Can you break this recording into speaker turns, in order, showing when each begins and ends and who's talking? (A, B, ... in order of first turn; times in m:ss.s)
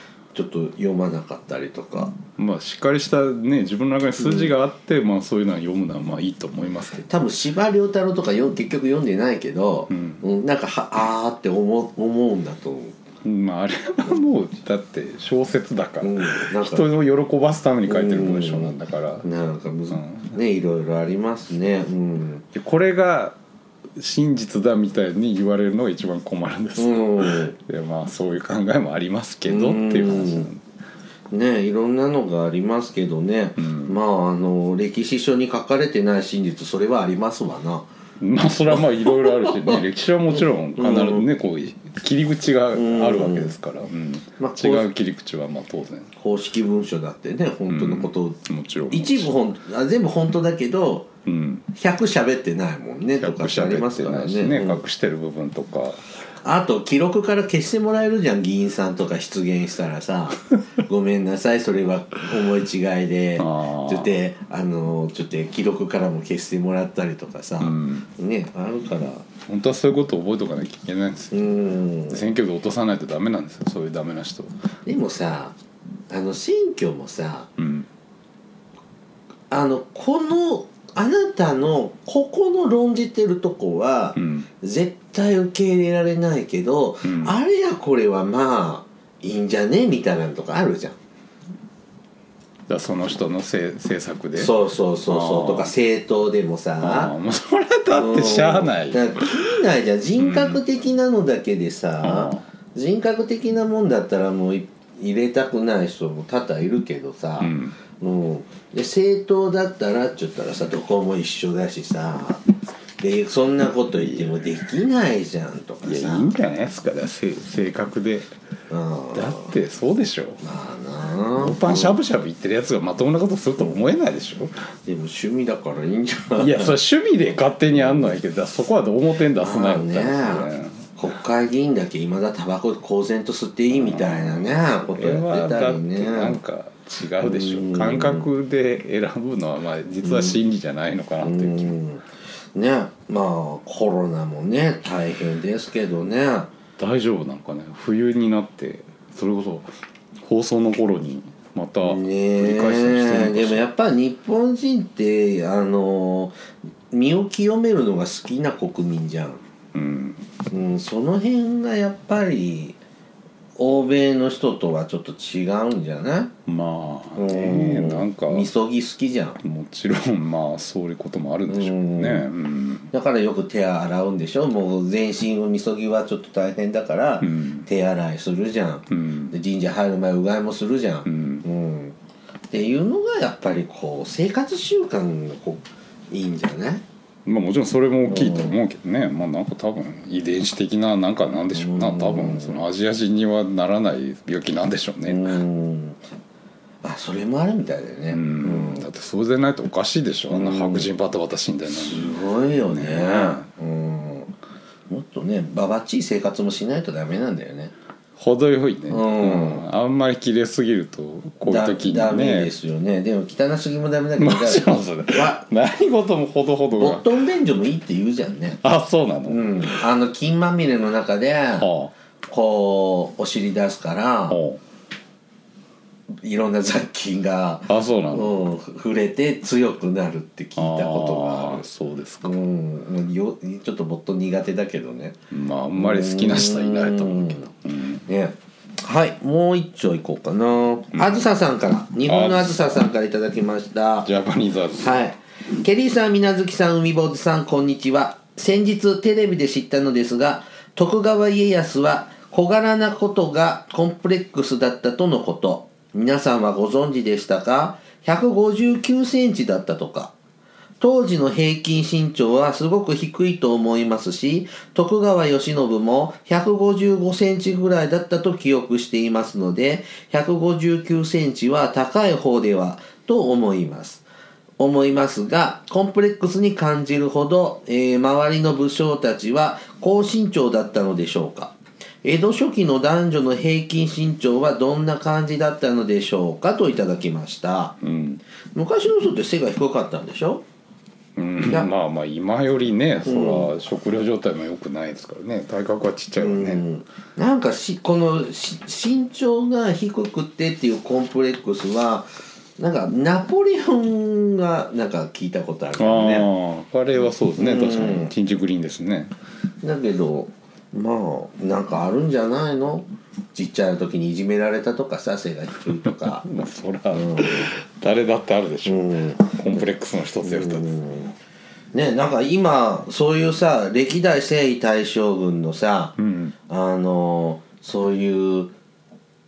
0:00.3-0:02.1 A
0:02.4-0:07.1 B
0:07.1-0:12.9 A
0:09.9-0:10.2 B
0:13.2-0:19.2 B
0:16.0-0:16.9 A
0:17.8-0:22.4 A
0:19.9-0:20.4 B
0:22.5-0:23.4 B
0:24.0-0:30.6 B
0:26.8-0:27.6 A
0:29.5-0:30.5 A
0:31.3-0:37.9 A
0:33.6-0:34.0 B
0:38.2-0:46.1 B
0:39.0-0:39.8 A
0:40.8-0:41.2 A
0:42.7-0:43.5 A
0:44.4-0:44.9 A
0:46.2-0:48.4 A
0:47.7-0:49.3 B
0:48.9-0:51.1 A
0:51.2-0:51.7 B
0:51.7-0:54.8 A
0:53.2-0:56.0 B
0:56.4-1:09.2 A
1:03.4-1:04.1 B
1:07.6-1:08.1 B
1:09.4-1:11.5 B
1:11.3-1:12.2 A
1:12.1-1:14.5 B
1:14.8-1:15.6 A
1:16.1-1:17.5 A
1:17.6-1:17.9 B
1:19.5-1:31.0 A
1:24.2-1:24.5 B
1:27.0-1:27.3 B
1:32.7-1:34.5 B
1:34.4-1:37.1 A
1:35.0-1:35.7 B
1:36.8-1:39.3 B
1:37.9-1:52.5 A
1:40.2-1:40.6 B
1:42.0-1:42.4 B
1:47.4-1:47.7 B
1:53.0-1:56.3 A
1:54.0-1:54.5 B
1:55.8-1:58.3 B
1:58.7-1:59.5 A
1:59.1-2:00.4 B
2:00.4-2:02.0 A
2:01.4-2:04.5 B
2:04.8-2:06.8 A
2:06.4-2:10.9 B
2:09.4-2:16.4 A
2:13.7-2:21.7 B
2:17.2-2:18.3 A
2:20.0-2:20.4 A
2:21.2-2:22.0 A
2:22.5-2:26.5 A
2:26.8-2:29.7 B
2:30.2-2:33.7 B
2:31.8-2:36.3 A
2:36.9-2:39.4 A
2:39.7-2:40.2 B
2:40.5-2:42.8 A
2:43.6-2:46.3 A
2:46.5-2:48.5 B
2:47.2-2:49.4 A
2:49.4-2:52.9 B
2:51.5-2:52.3 A
2:52.9-3:02.0 A
2:57.2-2:57.7 B
2:58.9-2:59.3 B
3:01.0-3:01.4 B
3:02.5-3:06.8 A
3:07.2-3:15.4 B
3:08.0-3:08.5 A
3:11.5-3:12.6 A
3:15.0-3:16.0 A
3:16.8-3:18.8 A
3:18.1-3:23.5 B
3:20.3-3:20.9 A
3:21.7-3:24.3 A
3:24.9-3:27.7 A
3:28.2-3:32.5 B
3:28.9-3:29.6 A
3:31.4-3:35.4 A
3:34.2-3:37.0 B
3:36.8-3:38.6 A
3:38.6-3:39.8 B
3:39.3-3:41.7 A
3:41.6-3:41.9 B
3:42.2-3:44.4 A
3:44.3-3:44.6 B
3:46.1-3:51.6 A
3:47.7-3:48.3 B
3:50.6-3:52.4 B
3:52.2-3:55.2 A
3:55.3-3:58.0 B
3:55.7-3:57.5 A
3:58.0-4:04.1 A
4:00.9-4:01.2 B
4:02.0-4:02.8 B
4:04.0-4:05.0 B
4:04.8-4:20.1 A
4:20.8-4:34.0 A
4:34.6-4:47.7 A
4:47.8-4:48.2 B
4:48.5-4:50.4 A
4:51.2-4:56.6 B
4:53.0-4:53.5 A
4:56.2-5:06.3 A
5:05.8-5:09.1 B
5:07.4-5:08.1 A
5:09.6-5:16.2 A
5:15.8-5:20.7 B
5:16.9-5:17.5 A
5:18.6-5:19.3 A
5:20.2-5:21.1 A
5:21.7-5:26.0 A
5:26.0-5:26.3 B
5:26.5-5:28.5 A